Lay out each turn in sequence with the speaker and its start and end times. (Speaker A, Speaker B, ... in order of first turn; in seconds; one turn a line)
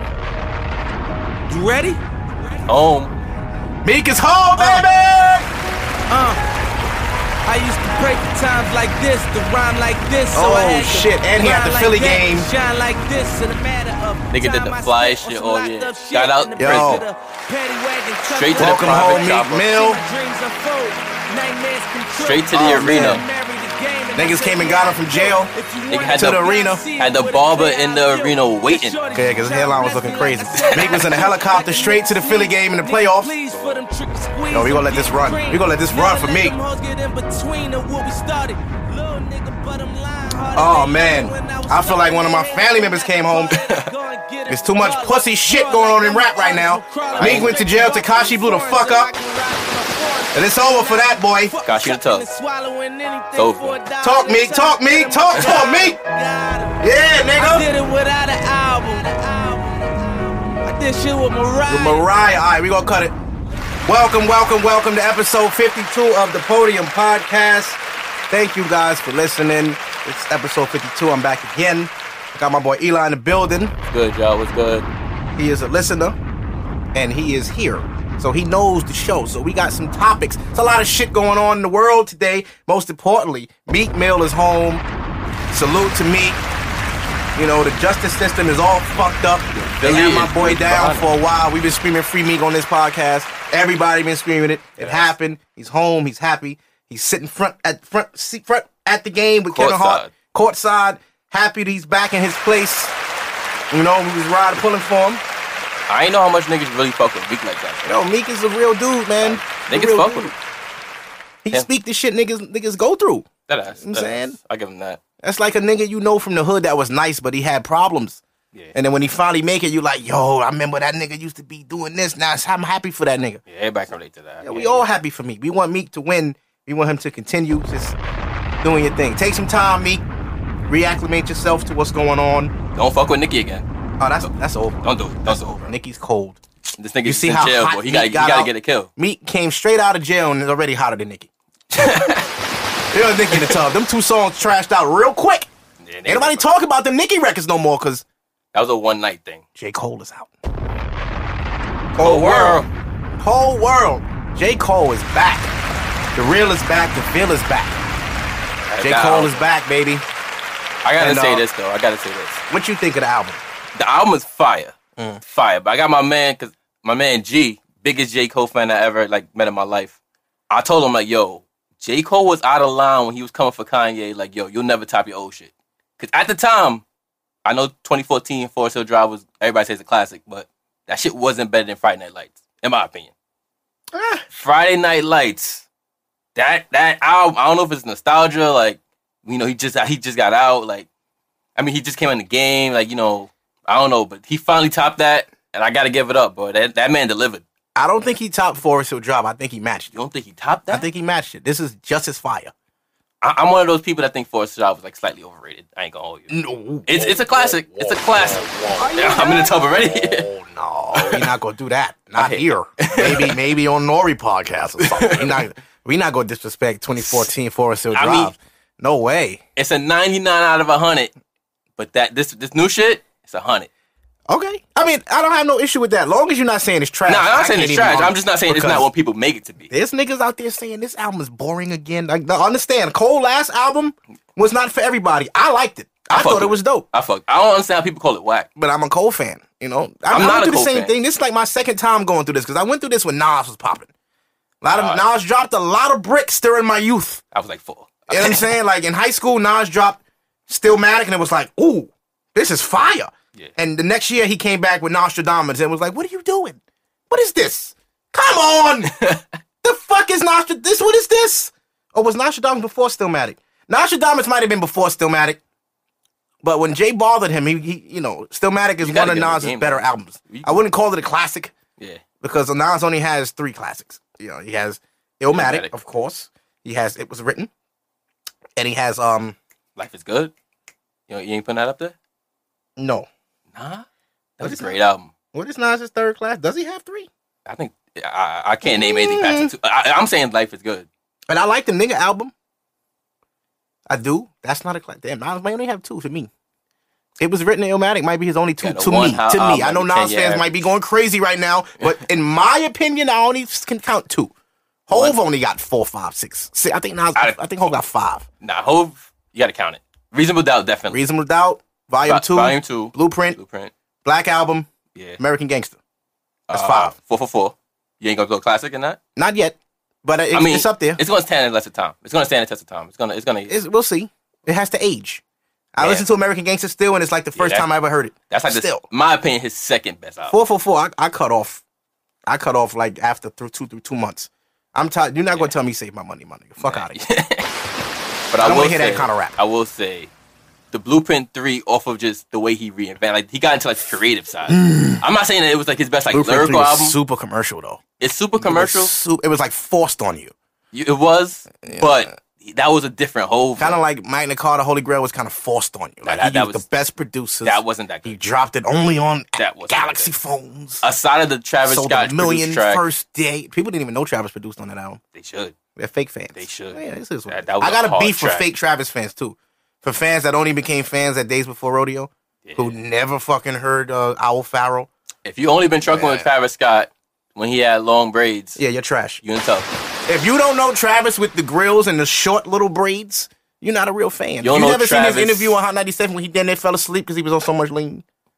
Speaker A: 1.5-2.0
Speaker B: 2.7-3.1
Speaker C: 3.8-5.5
Speaker A: 4.6-4.9
Speaker A: 6.1-6.4
Speaker A: 7.5-56.8
Speaker C: 10.3-12.5
Speaker B: 14.3-17.0
Speaker C: 16.6-17.0
Speaker B: 18.3-19.6
Speaker C: 18.6-20.0
Speaker B: 22.1-23.2
Speaker C: 22.5-23.2
Speaker C: 24.1-25.5
Speaker B: 25.9-29.0
Speaker C: 26.1-26.8
Speaker C: 29.1-33.4
Speaker B: 30.6-31.0
Speaker B: 33.5-33.8
Speaker C: 34.5-36.5
Speaker C: 40.5-43.6
Speaker C: 44.5-49.1
Speaker B: 47.1-47.6
Speaker C: 50.3-51.5
Speaker B: 51.6-52.2
Speaker B: 53.3-53.8
Speaker C: 54.0-56.0
Speaker C: 56.8-57.7
Speaker A: 57.3-62.1
Speaker C: 61.7-63.1
Speaker C: 63.9-67.8
Speaker C: 68.3-73.7
Speaker B: 73.9-74.9
Speaker C: 75.3-76.2
Speaker C: 76.9-84.8
Speaker C: 85.5-86.4
Speaker C: 87.3-102.9
Speaker B: 89.5-91.1
Speaker B: 94.8-95.1
Speaker B: 99.5-100.1
Speaker C: 103.7-105.2
Speaker B: 105.9-107.9
Speaker C: 107.8-110.3
Speaker B: 109.2-110.3
Speaker C: 111.4-114.4
Speaker B: 113.5-115.0
Speaker C: 115.2-118.2
Speaker C: 118.7-123.4
Speaker B: 123.5-124.9
Speaker C: 124.4-128.0
Speaker C: 128.6-130.0
Speaker C: 130.7-132.5
Speaker B: 132.7-133.7
Speaker C: 134.0-136.4
Speaker B: 134.8-135.5
Speaker B: 136.8-138.9
Speaker C: 137.0-142.2
Speaker B: 141.7-142.3
Speaker C: 142.9-145.5
Speaker B: 143.3-143.6
Speaker B: 145.8-146.5
Speaker C: 146.1-148.0
Speaker B: 148.5-149.4
Speaker C: 149.6-150.3
Speaker C: 151.9-152.6
Speaker B: 152.0-152.7
Speaker C: 153.2-155.5
Speaker C: 156.1-157.8
Speaker B: 158.7-159.5
Speaker C: 158.8-160.0
Speaker B: 160.8-162.4
Speaker C: 161.0-161.4
Speaker C: 162.5-163.4
Speaker B: 163.7-170.0
Speaker B: 170.5-176.8
Speaker B: 177.4-183.1
Speaker C: 183.9-184.2
Speaker B: 184.3-185.7
Speaker B: 186.3-190.9
Speaker B: 191.6-197.4
Speaker C: 197.8-199.9
Speaker B: 199.9-200.9
Speaker C: 200.7-202.5
Speaker B: 203.2-210.3
Speaker C: 206.3-219.4
Speaker B: 210.9-211.3
Speaker B: 212.2-213.4
Speaker B: 214.8-215.5
Speaker B: 217.0-217.3
Speaker B: 217.9-218.3
Speaker B: 219.6-221.1
Speaker B: 221.8-223.7
Speaker C: 224.3-228.9
Speaker B: 227.1-229.7
Speaker C: 229.7-236.8
Speaker B: 236.1-238.5
Speaker C: 238.6-243.9
Speaker B: 240.1-240.9
Speaker C: 244.6-247.2
Speaker B: 244.7-245.1
Speaker B: 247.3-248.5
Speaker C: 248.1-256.6
Speaker C: 257.1-258.9
Speaker B: 258.8-259.3
Speaker C: 259.6-265.4
Speaker C: 266.4-271.5
Speaker B: 268.8-270.6
Speaker B: 271.8-272.0
Speaker C: 272.2-277.5
Speaker B: 275.3-275.7
Speaker C: 278.6-279.4
Speaker B: 279.8-280.3
Speaker B: 281.1-281.9
Speaker C: 282.8-283.1
Speaker B: 283.5-283.9
Speaker B: 284.4-285.1
Speaker C: 284.4-284.8
Speaker C: 285.3-287.1
Speaker B: 287.4-290.9
Speaker C: 288.6-289.5
Speaker C: 291.3-292.3
Speaker C: 293.9-296.3
Speaker C: 297.2-304.3
Speaker B: 298.6-300.6
Speaker C: 304.9-308.2
Speaker B: 304.9-305.2
Speaker B: 308.4-311.0
Speaker C: 310.9-313.4
Speaker B: 312.0-313.7
Speaker C: 314.0-315.8
Speaker B: 314.9-315.2
Speaker B: 316.5-319.0
Speaker C: 316.5-316.9
Speaker C: 319.1-321.0
Speaker B: 320.3-323.6
Speaker C: 323.5-325.2
Speaker C: 325.7-328.8
Speaker B: 325.8-326.1
Speaker B: 327.3-327.7
Speaker B: 328.3-330.4
Speaker C: 330.3-331.6
Speaker C: 332.3-337.0
Speaker B: 336.6-337.5
Speaker B: 338.3-340.1
Speaker C: 338.4-339.4
Speaker B: 340.7-347.0
Speaker C: 344.5-345.0
Speaker C: 346.1-347.8
Speaker B: 348.0-349.0
Speaker C: 348.4-350.3
Speaker B: 350.7-353.8
Speaker C: 351.6-352.1
Speaker C: 353.6-360.9
Speaker B: 356.0-356.6
Speaker B: 357.4-358.2
Speaker B: 359.4-360.1
Speaker B: 360.8-362.9
Speaker C: 361.6-365.0
Speaker B: 365.1-365.5
Speaker C: 365.8-374.9
Speaker B: 366.3-368.5
Speaker B: 372.4-372.8
Speaker B: 375.2-378.6
Speaker C: 375.9-376.3
Speaker C: 378.6-379.2
Speaker B: 379.2-379.7
Speaker C: 380.1-388.0
Speaker B: 384.4-385.6